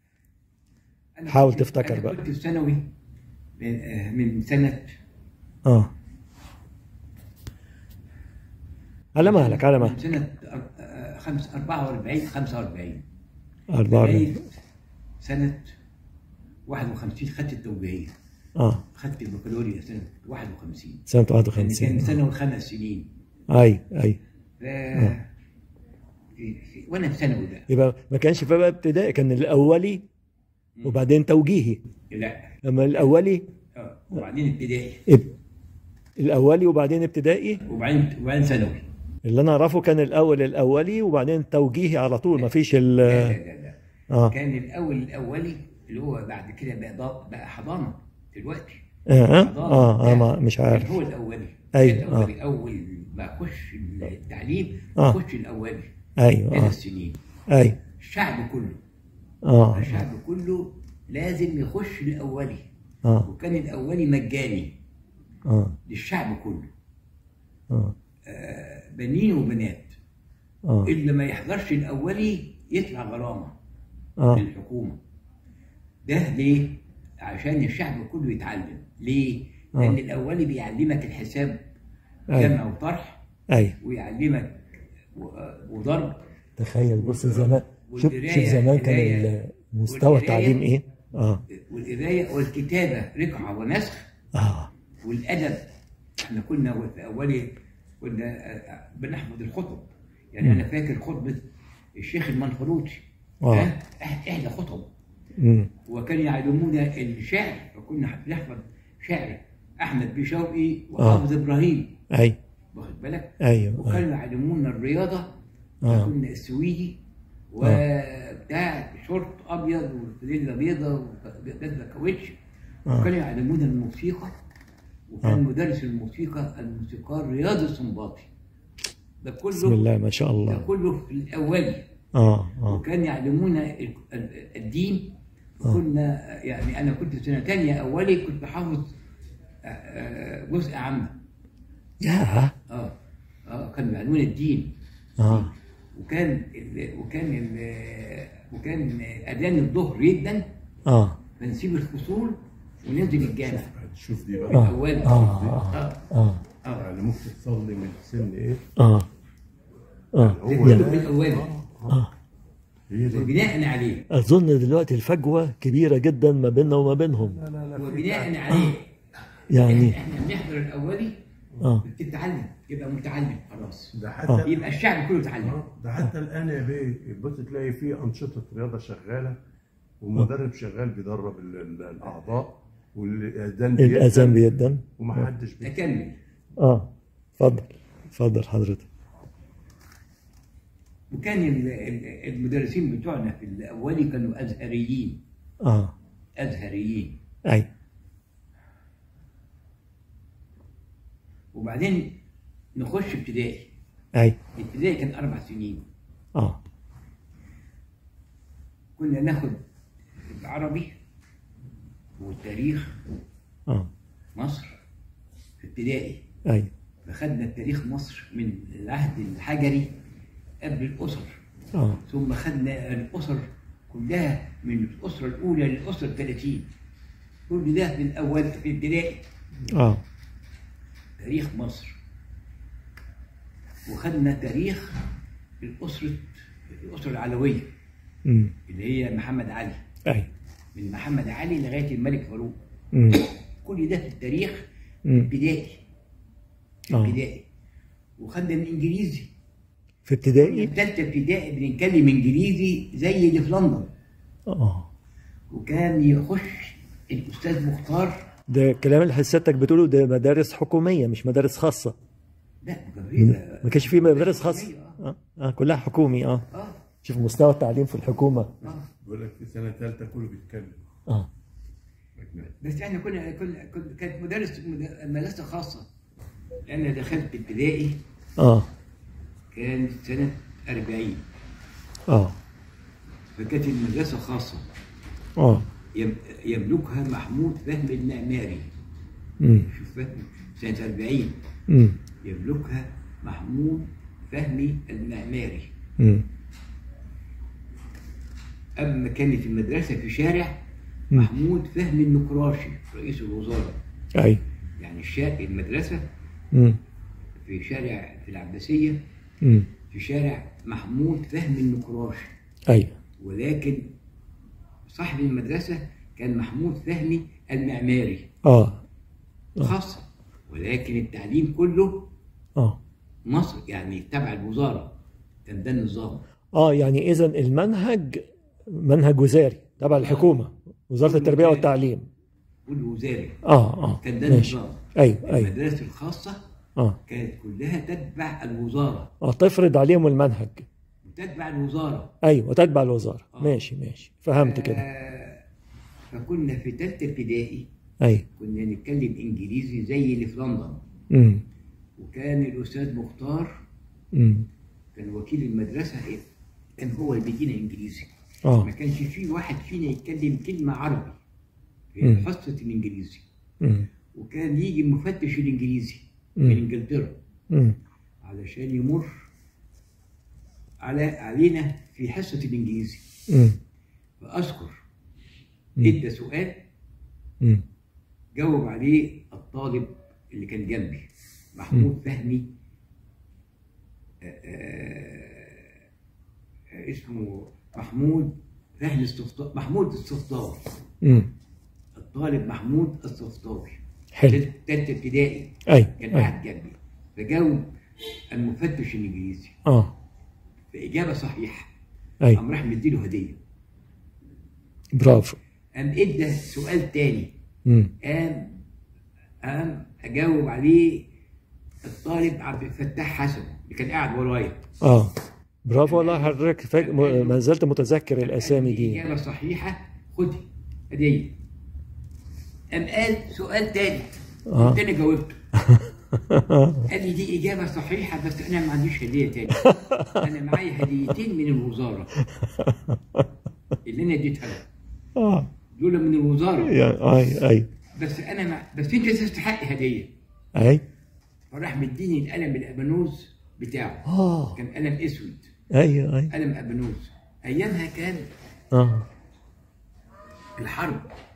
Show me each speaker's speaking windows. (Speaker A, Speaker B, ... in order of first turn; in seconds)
Speaker A: 1.2-2.9, 3.6-5.0, 9.2-13.1, 13.9-14.5, 15.2-15.8, 16.7-18.1, 18.9-23.1, 24.6-25.3, 26.4-27.7, 30.8-31.0, 32.1-32.5, 33.8-35.0, 37.7-38.8, 42.4-55.9, 56.5-57.2, 58.0-58.8, 59.7-62.7, 63.2-64.8, 65.9-66.7, 68.2-69.9, 70.8-73.5, 74.3-75.0, 76.0-81.6, 82.3-83.2, 83.8-86.2, 87.0-89.3, 89.9-90.7, 91.5-94.1, 95.0-101.4, 102.0-104.9, 105.8-112.0, 112.7-115.3, 115.8-117.0, 117.5-122.4, 122.9-124.3, 125.1-128.3, 129.2-129.9, 130.5-131.8, 132.7-138.9, 139.6-141.2, 142.7-142.9, 143.4-150.4, 151.4-153.7, 154.5-156.0, 160.4-161.5, 163.1-164.1, 167.8-168.9, 169.6-171.2, 171.8-175.6, 185.6-186.2, 191.1-195.2, 196.4-197.2, 201.5-202.2, 202.8-203.7, 204.5-205.8, 209.0-209.6, 210.2-210.9, 212.2-212.9, 214.3-214.8, 215.6-216.2, 217.0-219.9, 220.6-221.4, 222.0-226.7, 227.5-229.2, 231.2-231.9, 233.8-235.0, 235.6-237.7, 238.7-239.8, 240.8-242.6, 243.6-244.6, 245.1-245.8, 246.9-247.4, 248.2-249.3, 250.4-253.9, 255.5-258.2, 262.6-265.0, 266.5-266.8, 268.6-268.9, 272.2-275.9, 276.7-278.0, 279.5-281.2, 283.3-284.6, 285.9-288.7, 289.7-291.4, 292.2-295.7, 298.8-300.6, 301.1-303.8, 304.8-306.1, 307.4-309.0, 309.9-312.3, 313.2-313.8, 314.9-318.3, 319.6-322.1, 323.2-326.2, 330.0-330.4, 331.0-331.8, 332.6-333.4, 334.0-336.4, 337.1-339.1, 341.0-342.1, 344.4-345.4, 346.1-347.6, 348.3-350.8, 352.0-353.6, 354.9-356.2, 356.8-361.2, 361.9-363.2, 364.1-367.2, 368.2-369.1, 370.8-373.1, 374.2-374.8, 375.8-376.6, 378.3-382.5, 384.2-385.7, 386.7-390.6, 391.9-397.6, 398.3-399.6, 400.7-401.7, 402.3-403.4, 405.8-407.3, 408.0-408.6, 409.4-411.1, 411.8-414.6, 415.8-417.4, 418.2-421.3, 422.7-425.4, 426.9-432.1, 433.8-434.7, 435.7-436.8, 437.9-440.1, 441.5-445.5, 446.3-448.3, 450.6-451.1
Speaker B: 1.3-2.2, 5.6-5.9, 9.1-10.0, 13.7-14.3, 18.6-18.8, 21.1-22.1, 23.5-24.2, 27.7-30.0, 30.8-31.8, 32.6-33.5, 35.1-35.3, 36.2-37.6, 39.2-43.4, 49.1-51.0, 51.7-52.3, 56.2-56.8, 57.5-57.8, 59.4-60.0, 65.5-65.8, 67.7-67.9, 70.6-70.9, 82.3-82.6, 83.5-83.8, 86.6-91.4, 94.3-94.7, 103.4-103.7, 105.4-105.7, 111.0-111.2, 112.1-112.4, 113.4-114.0, 115.8-116.1, 129.5-130.7, 132.2-132.8, 142.0-142.5, 145.2-145.5, 150.9-151.2, 154.5-156.4, 158.8-159.1, 160.2-160.9, 164.1-167.4, 169.5-170.0, 183.8-185.3, 186.6-188.8, 195.6-195.9, 206.3-206.6, 221.8-222.0, 229.7-230.0, 238.2-238.5, 242.9-243.2, 246.9-247.2, 250.1-250.7, 254.5-254.9, 258.5-261.9, 263.2-266.4, 267.0-268.7, 278.4-278.7, 282.1-282.4, 285.4-285.6, 289.4-289.7, 291.7-292.0, 296.0-296.2, 304.1-304.4, 306.5-306.8, 309.4-309.7, 312.7-312.9, 318.4-318.8, 326.6-332.1, 333.4-335.5, 339.2-340.6, 342.2-344.8, 351.1-351.4, 354.1-354.5, 363.6-363.9, 367.5-367.8, 373.3-373.6, 391.0-391.3, 394.1-394.4, 395.7-396.3, 399.6-399.9, 404.9-405.4, 407.6-407.9, 414.8-419.0, 424.5-424.8, 425.6-426.9, 429.6-430.2, 432.3-433.2, 435.1-435.5, 436.6-437.7, 440.6-440.8, 444.1-444.6, 445.7-446.3, 448.7-449.1
Speaker C: 152.9-155.7, 156.7-158.6, 160.2-162.0, 162.9-163.5, 167.2-168.5, 173.9-174.8, 175.3-179.3, 180.0-185.8, 269.0-270.8